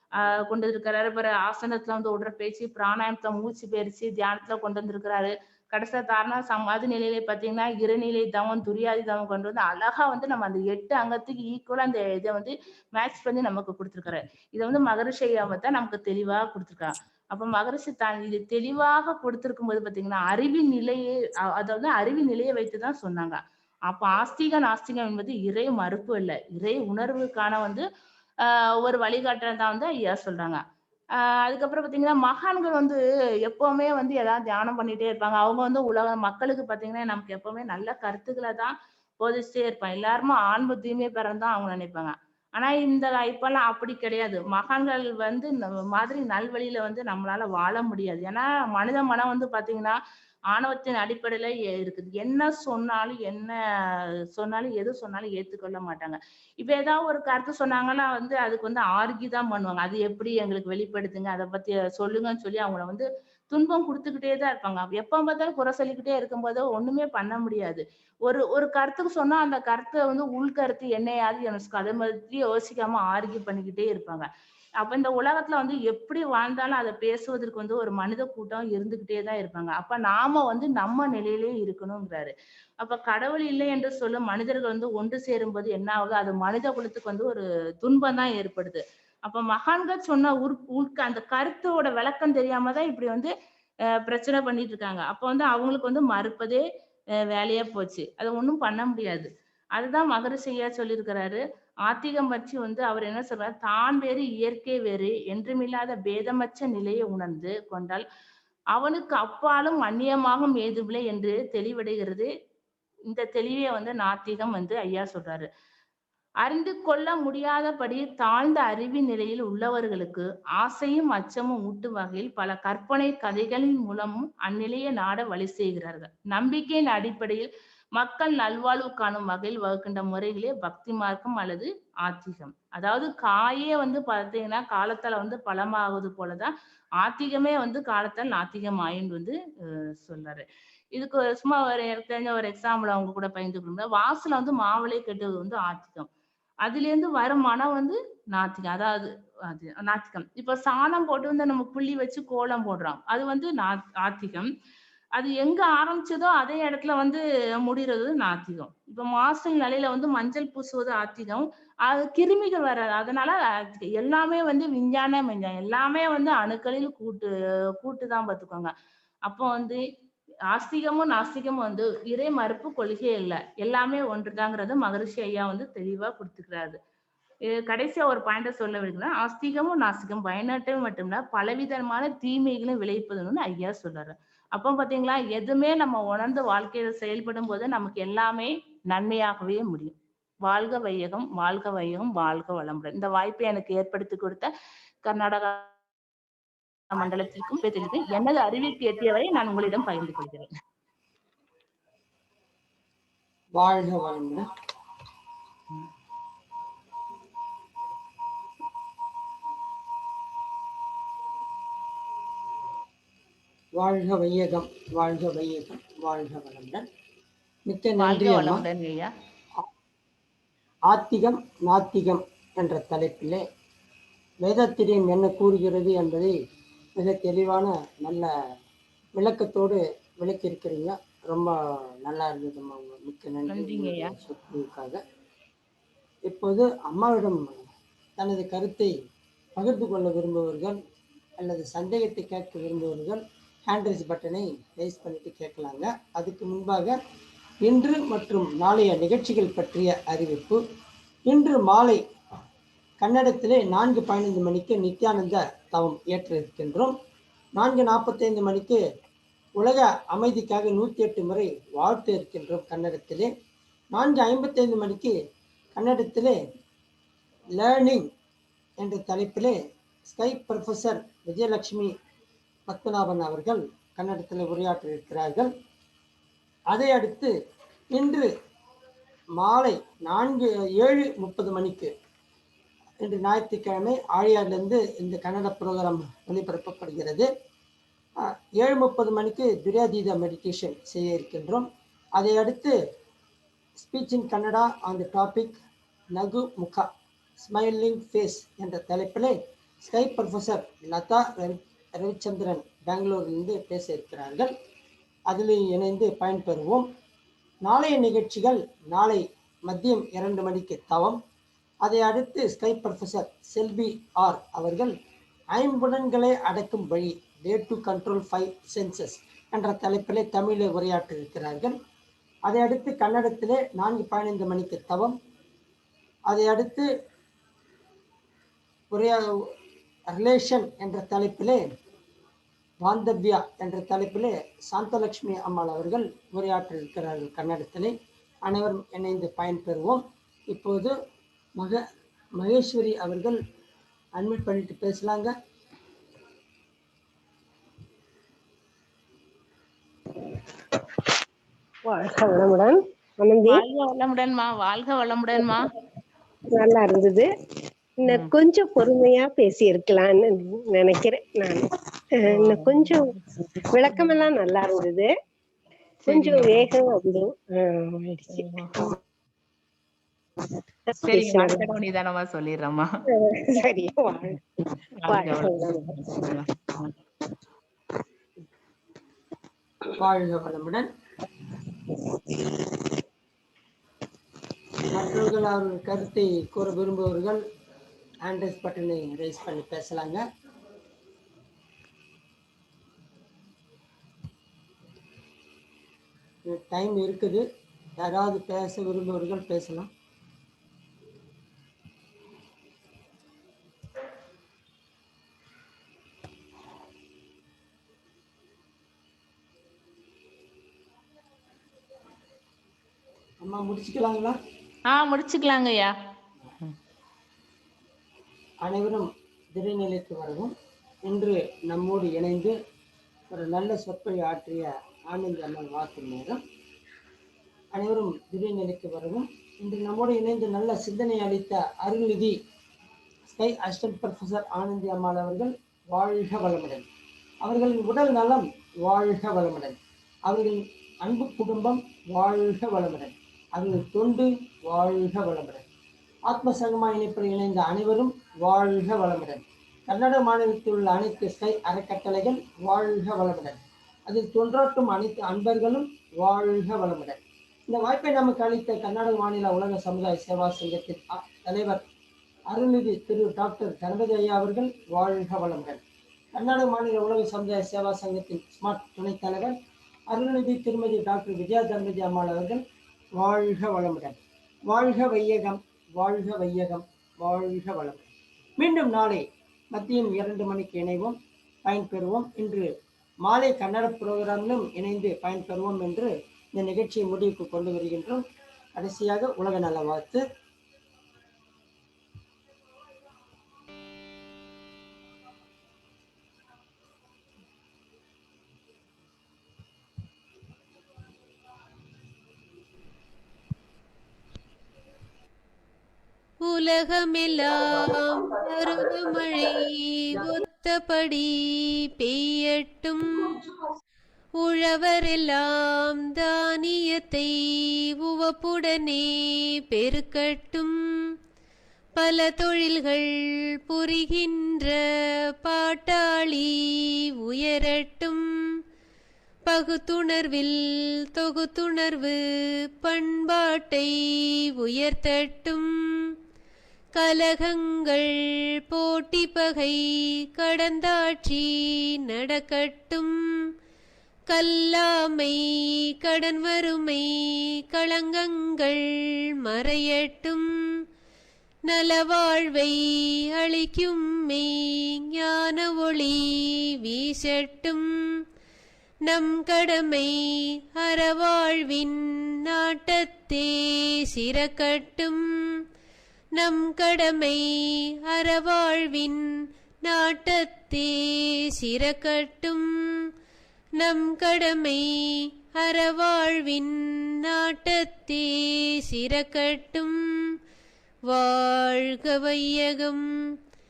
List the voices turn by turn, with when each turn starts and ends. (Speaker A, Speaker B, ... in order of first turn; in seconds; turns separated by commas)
Speaker A: 0.2-27.9, Speaker A: 28.4-30.6, Speaker A: 31.2-50.0, Speaker A: 50.5-74.3, Speaker A: 74.8-93.3, Speaker A: 94.0-96.6, Speaker A: 97.3-108.0, Speaker A: 108.7-112.3, Speaker A: 113.1-115.5, Speaker A: 116.4-146.1, Speaker A: 146.7-154.5, Speaker A: 155.2-168.7, Speaker A: 169.3-169.8, Speaker A: 170.5-176.8, Speaker A: 177.5-189.9, Speaker A: 190.5-194.5, Speaker A: 195.0-195.7, Speaker A: 196.9-200.5, Speaker B: 203.6-204.4, Speaker B: 213.8-216.9, Speaker B: 217.7-218.6, Speaker A: 218.0-219.1, Speaker B: 220.9-223.4, Speaker B: 224.4-226.3, Speaker B: 227.0-228.3, Speaker B: 229.2-235.0, Speaker A: 233.5-234.1, Speaker B: 236.3-238.9, Speaker B: 239.6-240.8, Speaker B: 241.4-247.0, Speaker B: 247.6-250.6, Speaker B: 251.3-252.0, Speaker B: 253.0-257.0, Speaker B: 257.6-258.8, Speaker B: 259.6-263.3, Speaker B: 263.9-265.1, Speaker B: 265.8-266.4, Speaker B: 267.6-268.1, Speaker B: 268.8-269.6, Speaker B: 270.1-271.9, Speaker B: 272.7-275.5, Speaker B: 276.7-277.3, Speaker B: 277.9-278.3, Speaker B: 279.4-281.9, Speaker B: 283.0-287.3, Speaker B: 288.2-291.7, Speaker B: 292.2-292.8, Speaker B: 293.8-295.6, Speaker B: 296.1-304.5, Speaker B: 305.3-306.9, Speaker B: 307.6-311.2, Speaker B: 311.8-314.9, Speaker B: 315.5-321.8, Speaker B: 322.5-325.2, Speaker B: 326.3-326.9, Speaker B: 328.9-329.3, Speaker B: 330.1-331.6, Speaker B: 332.8-337.9, Speaker B: 338.4-340.9, Speaker B: 342.4-343.4, Speaker B: 344.2-345.3, Speaker C: 351.9-353.6, Speaker A: 353.5-355.7, Speaker C: 356.5-357.3, Speaker C: 358.0-365.1, Speaker A: 358.1-358.3, Speaker A: 362.3-363.2, Speaker A: 363.9-364.2, Speaker A: 366.0-366.7, Speaker C: 366.1-368.9, Speaker A: 368.3-368.8, Speaker C: 370.9-371.7, Speaker A: 371.0-372.9, Speaker C: 373.1-374.4, Speaker A: 374.9-376.9, Speaker C: 375.1-375.9, Speaker B: 379.9-380.9, Speaker B: 384.9-387.4, Speaker B: 388.2-390.2, Speaker B: 396.5-397.4, Speaker B: 398.0-399.9, Speaker B: 413.4-414.4, Speaker A: 414.9-415.9, Speaker B: 418.6-420.5, Speaker B: 421.1-422.6, Speaker B: 423.3-426.4, Speaker B: 427.7-432.4, Speaker B: 433.3-436.9, Speaker B: 437.4-445.6, Speaker B: 446.3-457.2, Speaker B: 457.7-461.8, Speaker B: 462.5-465.8, Speaker B: 466.3-469.6, Speaker B: 470.1-472.6, Speaker B: 473.2-482.7, Speaker B: 483.2-490.2, Speaker D: 506.5-513.4, Speaker D: 514.4-520.8, Speaker D: 522.0-524.9, Speaker D: 525.4-528.2, Speaker D: 529.5-532.2, Speaker D: 532.8-536.1, Speaker D: 537.0-543.5, Speaker D: 544.3-550.8, Speaker D: 551.7-558.2, Speaker D: 559.1-565.5, Speaker D: 566.4-569.2, Speaker D: 569.8-573.1, Speaker D: 573.8-580.4, Speaker D: 581.1-583.1